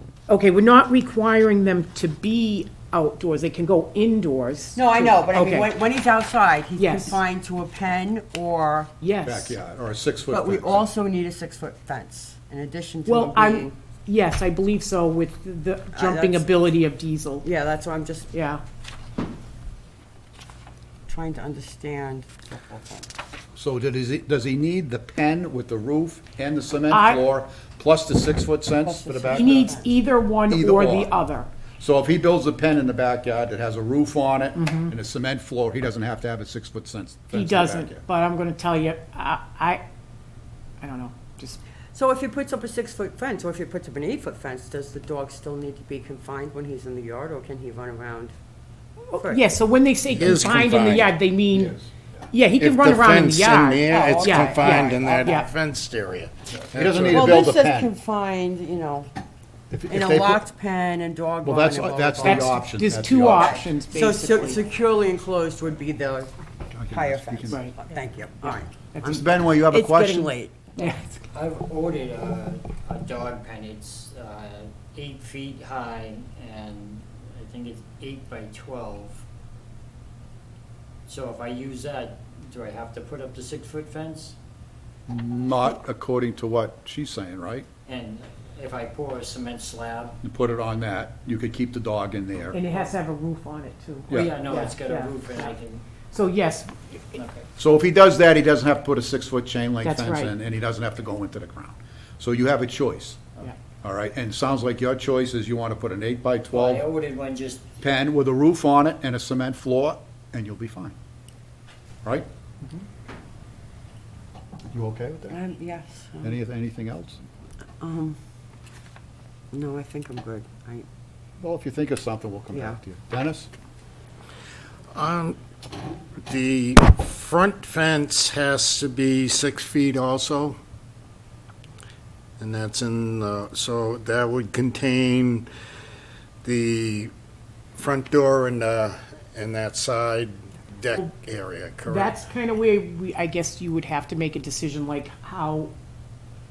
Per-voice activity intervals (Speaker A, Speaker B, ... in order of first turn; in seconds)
Speaker A: 0.3-5.7, 6.8-7.2, 9.0-9.6, 13.1-17.4, 18.3-18.6, 26.9-27.2, 29.3-31.5, 34.5-34.9, 37.3-39.8, 40.8-41.6, 49.1-51.7, 52.3-55.5, 62.2-64.6, 70.8-71.2, 92.5-95.6, 96.1-97.2, 99.8-100.3, 141.9-145.7
Speaker B: 4.7-8.9, 10.3-13.7, 15.9-16.5, 17.4-18.3, 21.1-23.1, 28.8-29.9, 41.9-48.3, 49.1-49.5, 53.8-55.5, 57.1-59.1, 59.9-66.3, 66.9-70.9, 115.3-116.4, 117.8-118.2, 119.5-120.9
Speaker C: 9.2-10.9, 23.6-29.8, 30.5-31.1, 31.8-38.0, 51.5-51.9, 56.6-57.9, 59.7-60.4, 61.4-63.6, 66.7-67.6, 69.0-70.3, 85.1-87.7, 90.2-92.6, 94.1-94.3, 97.6-103.2, 103.8-106.8, 107.8-110.9, 114.7-115.4, 116.2-117.2, 121.4-123.5
Speaker D: 50.1-51.2, 52.5-57.4, 124.9-125.4, 126.3-130.6, 132.4-135.5, 136.4-137.1, 137.8-142.3
Speaker E: 71.3-79.2, 81.1-84.3, 87.8-90.2, 92.7-93.0, 94.1-96.0, 97.1-97.5, 106.5-107.8